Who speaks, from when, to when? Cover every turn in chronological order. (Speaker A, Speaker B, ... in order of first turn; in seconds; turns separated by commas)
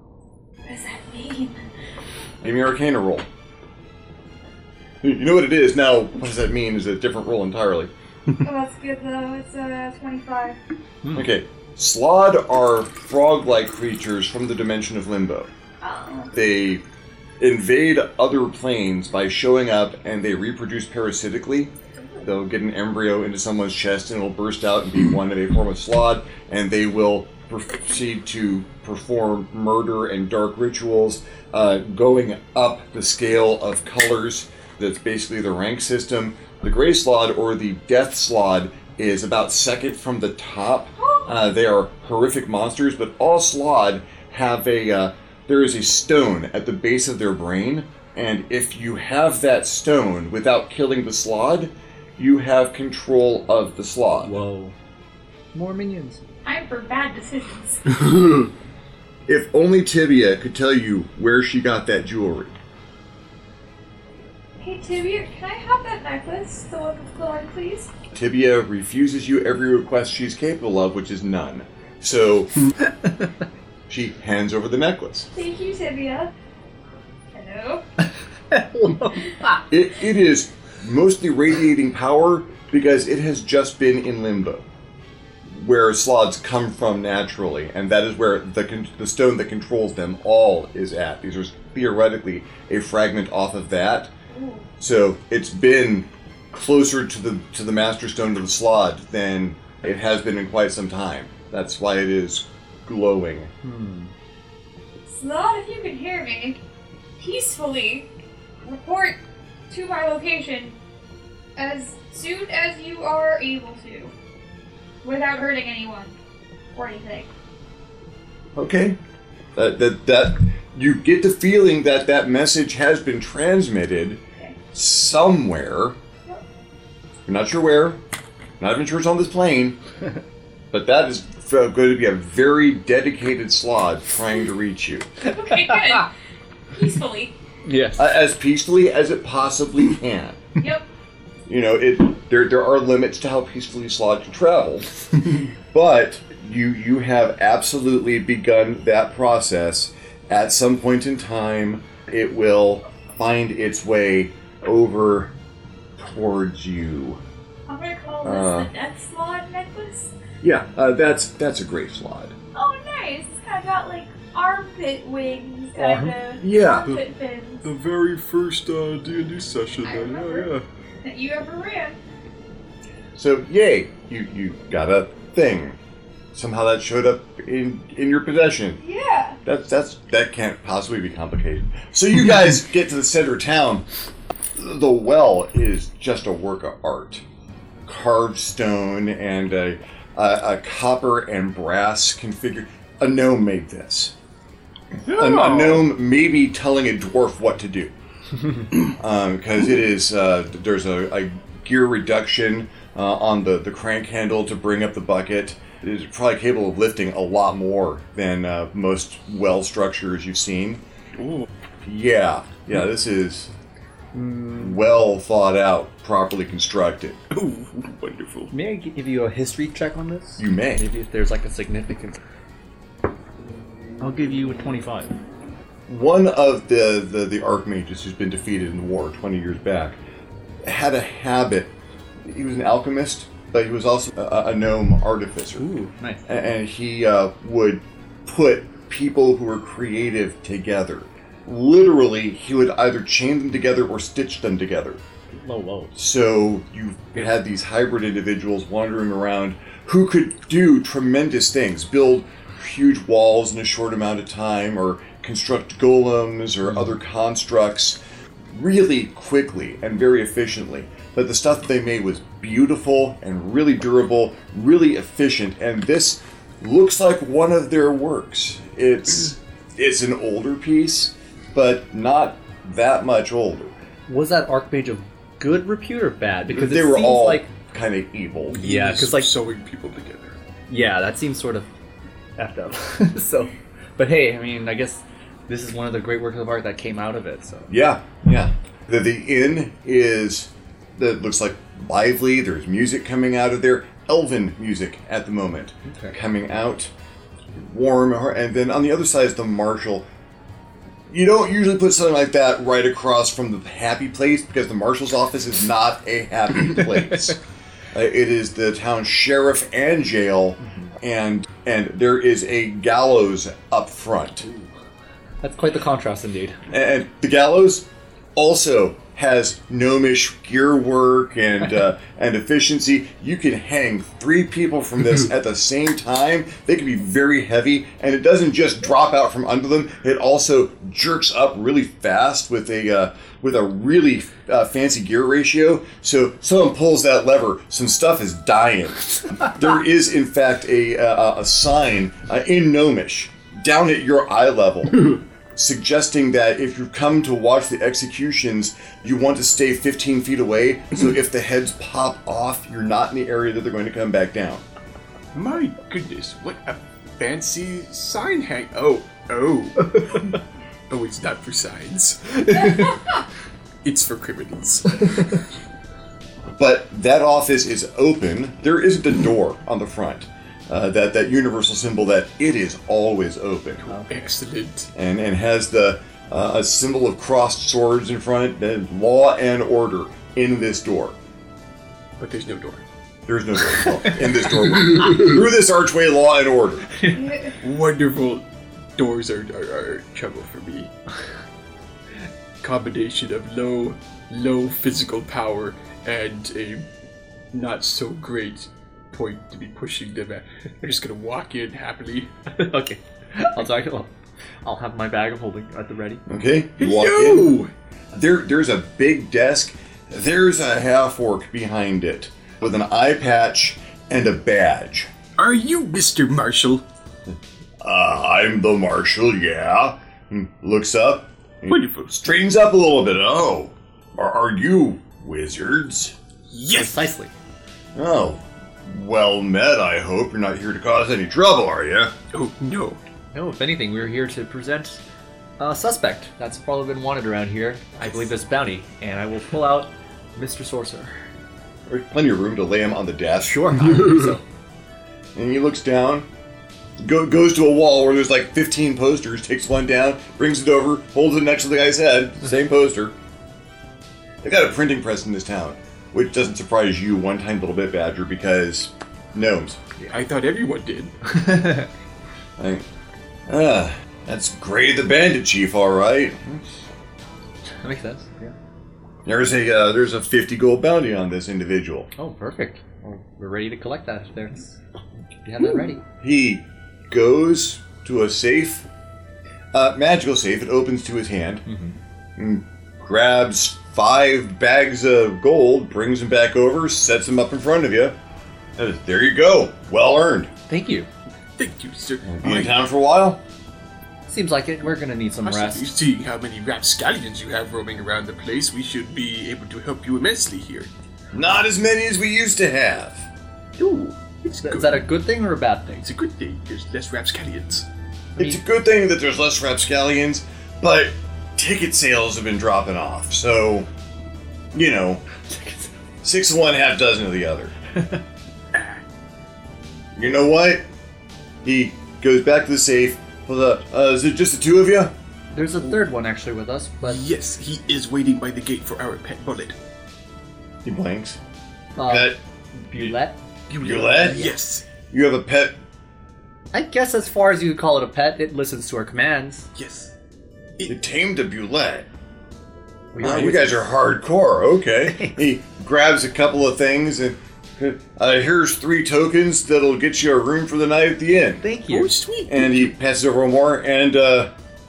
Speaker A: 0.7-1.6, Speaker B: 2.4-3.2, Speaker B: 5.0-7.9, Speaker A: 8.4-10.6, Speaker C: 11.0-11.3, Speaker B: 11.2-15.5, Speaker A: 15.8-16.3, Speaker B: 16.3-16.8, Speaker B: 17.4-54.4, Speaker A: 41.0-41.3, Speaker C: 54.2-54.8, Speaker C: 55.5-56.2, Speaker A: 56.5-57.8, Speaker B: 59.3-62.5, Speaker A: 64.6-67.9, Speaker B: 68.1-72.5, Speaker C: 73.0-73.3, Speaker B: 73.9-75.3, Speaker A: 75.3-76.3, Speaker A: 77.3-77.8, Speaker C: 78.5-79.6, Speaker B: 79.7-84.7, Speaker B: 85.5-94.1, Speaker A: 94.3-94.7, Speaker B: 94.8-103.5, Speaker C: 103.6-104.1, Speaker A: 105.1-106.6, Speaker A: 107.2-108.1, Speaker A: 108.6-109.2, Speaker A: 109.7-110.8, Speaker A: 111.6-114.1, Speaker A: 115.0-116.1, Speaker A: 116.7-117.3, Speaker B: 118.5-119.0, Speaker B: 119.5-124.2, Speaker B: 124.7-126.0, Speaker B: 127.3-128.0, Speaker B: 128.6-129.8, Speaker B: 130.7-135.1, Speaker A: 135.2-136.1, Speaker C: 135.5-136.0, Speaker A: 136.7-137.3, Speaker C: 137.7-138.1, Speaker B: 138.0-140.4, Speaker A: 140.6-140.8, Speaker B: 141.5-144.9, Speaker B: 145.7-155.3, Speaker B: 156.0-157.2, Speaker A: 157.7-160.1, Speaker B: 158.2-158.7, Speaker B: 160.4-162.4, Speaker A: 162.5-167.7, Speaker C: 165.8-166.1, Speaker B: 166.4-166.9, Speaker D: 167.6-170.7, Speaker A: 169.8-170.5, Speaker A: 171.0-172.0, Speaker B: 173.2-175.8, Speaker B: 176.3-178.8, Speaker A: 178.8-179.4, Speaker B: 179.4-183.8, Speaker B: 184.6-187.2, Speaker B: 187.8-194.1, Speaker B: 195.1-197.9, Speaker B: 198.7-210.8, Speaker E: 211.2-211.5, Speaker B: 211.8-213.5, Speaker C: 214.1-214.8, Speaker B: 214.6-217.2, Speaker E: 217.3-218.5, Speaker C: 218.5-222.2, Speaker B: 220.4-220.8, Speaker C: 224.0-225.2, Speaker B: 225.9-230.0, Speaker B: 230.7-231.7, Speaker B: 232.2-235.7, Speaker C: 235.6-236.3, Speaker B: 236.3-245.0, Speaker C: 245.4-245.9, Speaker B: 246.0-258.0, Speaker B: 258.5-273.8, Speaker C: 274.1-277.5, Speaker B: 276.5-278.6, Speaker E: 278.5-280.4, Speaker C: 278.6-279.3, Speaker C: 280.7-281.7, Speaker C: 282.4-287.7, Speaker B: 287.7-296.9, Speaker C: 295.9-296.2, Speaker B: 297.6-300.1, Speaker B: 301.1-307.4, Speaker B: 307.9-314.5, Speaker C: 310.6-310.9, Speaker C: 315.4-316.6, Speaker B: 316.7-354.6, Speaker E: 355.3-360.4, Speaker E: 360.9-363.0, Speaker E: 363.8-365.4, Speaker B: 366.6-373.9, Speaker E: 373.8-374.9, Speaker C: 373.9-374.2, Speaker B: 374.9-381.2, Speaker E: 382.2-382.9, Speaker B: 383.3-386.9, Speaker A: 387.1-387.6, Speaker E: 387.6-388.4, Speaker E: 389.0-390.9, Speaker E: 392.6-396.9, Speaker E: 397.5-402.3, Speaker C: 402.5-404.1, Speaker C: 404.6-406.2, Speaker B: 406.3-407.6, Speaker E: 406.8-407.7, Speaker B: 408.1-415.1, Speaker E: 415.4-416.8, Speaker B: 417.3-426.1, Speaker E: 421.7-422.1, Speaker E: 426.5-427.1, Speaker C: 426.7-427.3, Speaker B: 427.9-432.1, Speaker E: 432.3-433.0, Speaker C: 433.3-435.0, Speaker C: 435.6-441.2, Speaker B: 441.9-443.7, Speaker C: 443.4-444.4, Speaker B: 445.4-446.3, Speaker B: 447.0-453.1, Speaker B: 454.4-459.8, Speaker E: 460.1-461.1, Speaker C: 461.2-461.9, Speaker B: 462.6-462.9, Speaker B: 463.5-466.8, Speaker C: 467.8-468.5, Speaker B: 469.2-472.1, Speaker C: 472.2-474.8, Speaker C: 475.4-476.0, Speaker B: 476.2-478.9, Speaker B: 479.7-481.6, Speaker C: 481.7-482.0, Speaker B: 482.4-488.2, Speaker B: 488.8-490.5, Speaker C: 490.7-491.1, Speaker E: 491.6-492.8, Speaker B: 492.2-493.4, Speaker C: 494.3-495.9, Speaker E: 495.4-500.9, Speaker B: 501.3-503.3, Speaker E: 503.8-505.1, Speaker C: 504.6-506.1, Speaker E: 506.0-507.9, Speaker B: 508.4-513.9, Speaker B: 514.7-515.2, Speaker C: 515.5-515.9, Speaker B: 516.2-517.8, Speaker B: 520.2-520.8, Speaker B: 521.6-525.1, Speaker C: 525.5-527.2, Speaker E: 527.0-529.8, Speaker B: 530.9-531.4, Speaker C: 532.0-533.4, Speaker B: 532.0-532.4, Speaker E: 533.7-534.9, Speaker B: 533.8-534.4, Speaker C: 534.2-534.5, Speaker B: 535.1-535.8, Speaker C: 536.7-539.7, Speaker E: 539.8-540.1, Speaker B: 540.9-542.1, Speaker C: 543.1-543.8, Speaker B: 543.2-551.6, Speaker C: 545.1-545.4, Speaker C: 551.6-552.1, Speaker E: 551.9-552.9, Speaker B: 552.5-554.5